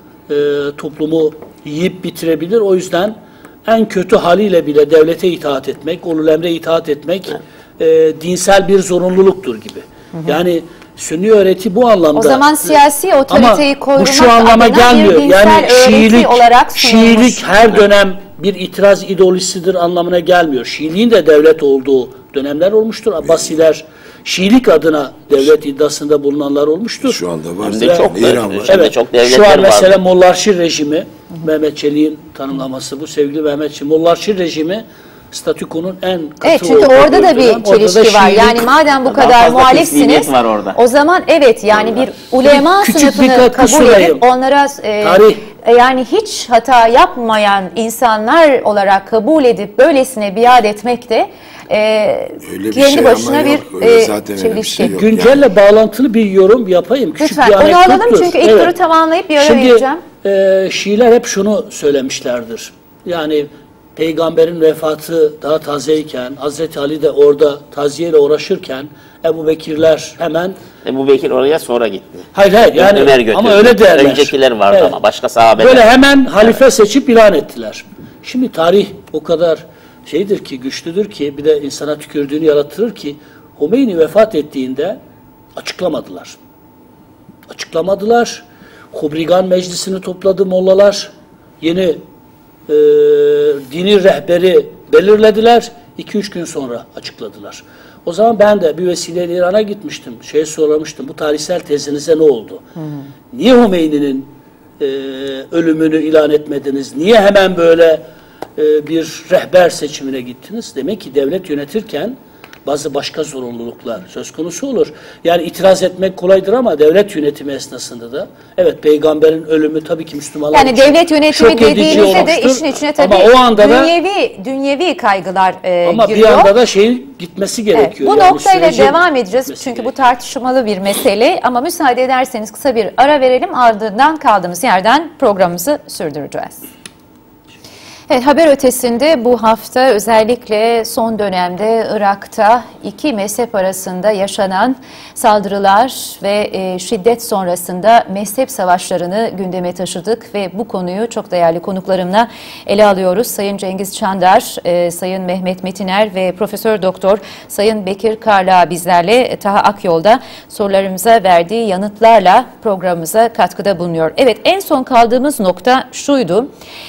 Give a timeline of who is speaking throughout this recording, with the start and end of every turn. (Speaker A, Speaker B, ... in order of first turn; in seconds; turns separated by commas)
Speaker A: 0.3-12.5, Speaker B: 12.1-17.6, Speaker A: 13.3-27.2, Speaker C: 27.0-28.8, Speaker D: 27.6-30.0, Speaker A: 27.8-28.1, Speaker A: 28.6-38.7, Speaker B: 36.4-55.0, Speaker D: 39.0-40.8, Speaker A: 42.4-44.2, Speaker A: 45.0-45.4, Speaker C: 52.4-55.4, Speaker A: 54.9-58.7, Speaker B: 57.2-60.0, Speaker A: 59.4-70.6, Speaker D: 70.8-75.8, Speaker A: 72.3-75.0, Speaker A: 75.6-85.0, Speaker A: 85.5-86.4, Speaker A: 87.5-92.0, Speaker A: 92.7-102.6, Speaker A: 103.3-108.0, Speaker A: 108.5-123.9, Speaker B: 120.5-126.5, Speaker A: 125.8-129.0, Speaker B: 127.7-136.6, Speaker A: 129.5-129.8, Speaker B: 138.1-166.5